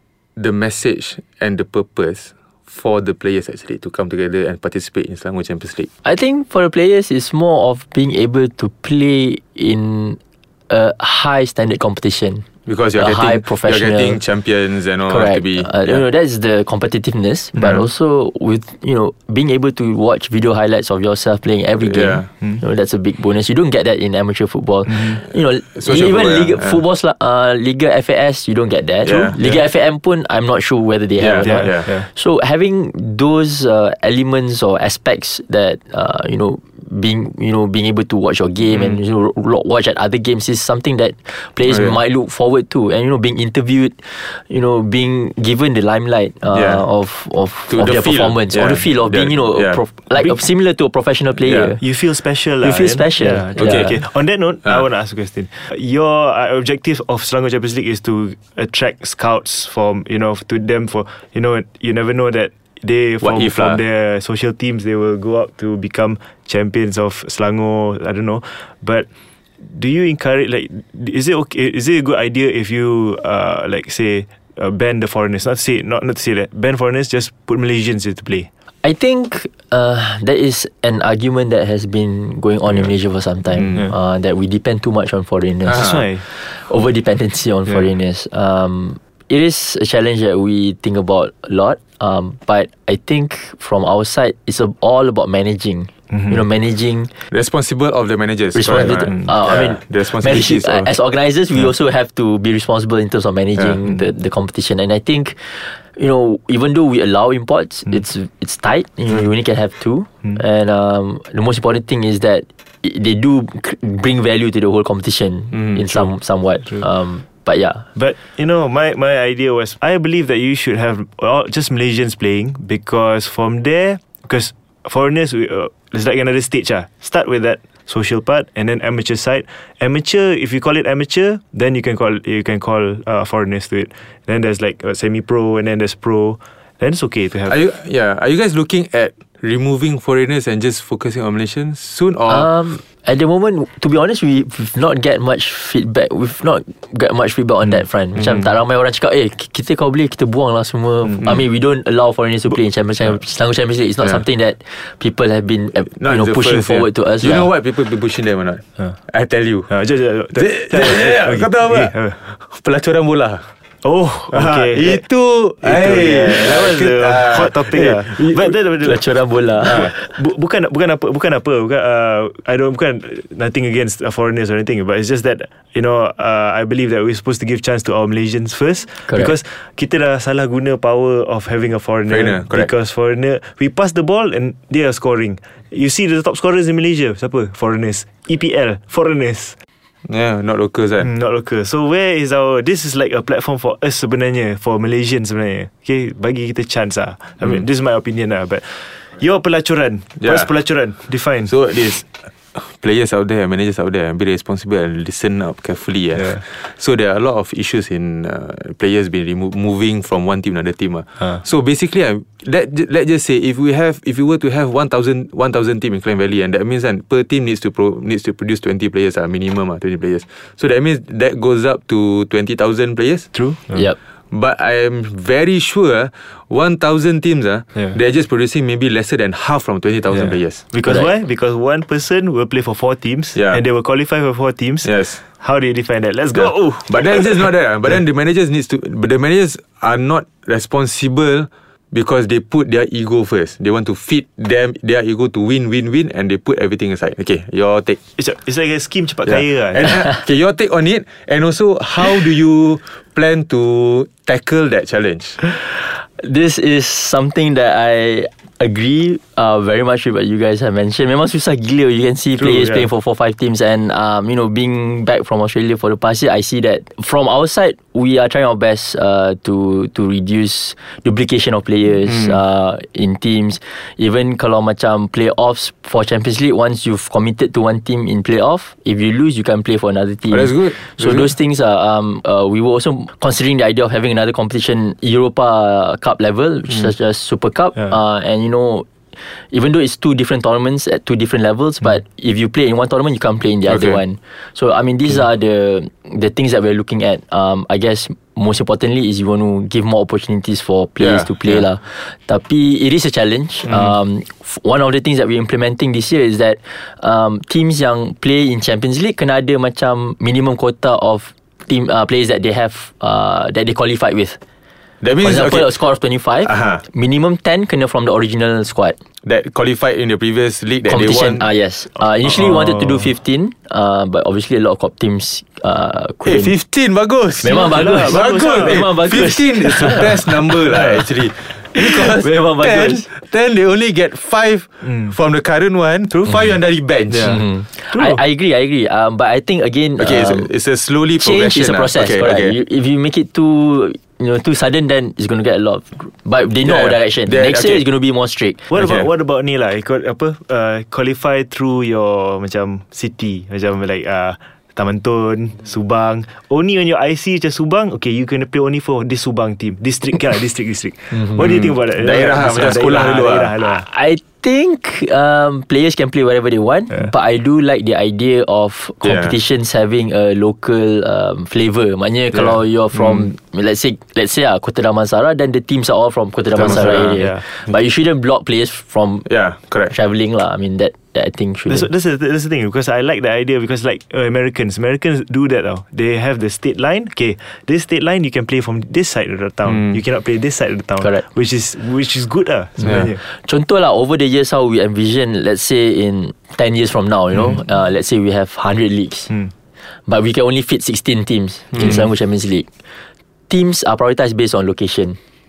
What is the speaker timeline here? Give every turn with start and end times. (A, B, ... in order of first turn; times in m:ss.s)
0:00.4-0:05.9 A
0:06.0-0:14.2 B
0:12.7-0:16.0 A
0:15.1-0:51.8 B
0:21.8-0:22.3 A
0:25.7-0:26.8 A
0:29.0-0:29.4 A
0:31.2-0:31.8 A
0:31.4-0:32.1 C
0:41.6-0:42.0 A
0:46.5-0:46.8 A
0:47.7-0:49.8 A
0:51.4-0:51.7 A
0:51.8-1:09.1 C
0:52.6-0:54.0 B
0:53.6-0:54.0 A
1:03.2-1:03.8 A
1:09.6-1:18.5 C
1:18.8-1:37.1 B
1:25.7-1:26.2 C
1:25.7-1:26.0 A
1:36.1-1:36.4 C
1:37.3-1:40.9 A
1:38.5-1:57.9 B
1:38.7-1:39.3 C
1:57.9-2:17.6 C
2:17.5-2:22.5 A
2:22.3-2:37.5 B
2:36.0-2:39.7 A
2:39.7-2:42.2 C
2:40.3-2:43.5 A
2:43.8-2:45.0 C
2:44.3-2:48.5 A
2:45.6-3:09.6 C
2:48.8-2:50.1 B
2:59.1-2:59.3 B
3:02.1-3:02.7 A
3:10.0-3:11.1 A
3:11.0-3:21.5 C
3:20.2-3:20.5 A
3:21.4-3:43.3 A
3:43.3-3:43.8 C
3:44.3-3:50.6 A
3:50.1-3:57.4 C
3:50.8-3:51.1 B
3:54.8-3:55.2 A
3:56.4-4:08.0 A
4:08.2-4:10.0 C
4:09.3-4:15.4 A
4:15.7-5:14.4 B
4:22.4-4:22.9 C
4:40.3-4:41.3 A
4:53.7-4:54.0 A
5:01.0-5:01.6 A
5:15.0-5:15.8 A
5:15.2-5:19.0 B
5:16.4-5:16.8 A
5:19.2-5:21.4 A
5:20.8-5:26.5 B
5:22.3-5:23.1 C
5:26.2-5:37.4 A
5:27.4-5:30.6 B
5:27.4-5:28.9 C
5:31.7-5:33.1 B
5:34.8-5:35.1 C
5:37.1-5:38.2 C
5:37.2-5:40.5 B
5:40.0-5:42.5 A
5:41.2-5:48.6 B
5:46.6-5:47.8 A
5:48.7-6:03.8 C
5:48.7-5:49.0 A
6:01.3-6:03.5 A
6:03.6-6:19.3 B
6:09.0-6:09.3 A
6:16.6-6:17.2 A
6:16.6-6:17.4 C
6:19.2-6:19.9 A
6:19.8-6:21.9 B
6:21.7-6:33.2 C
6:33.1-6:39.3 B
6:40.0-6:42.7 B
6:43.5-6:45.2 B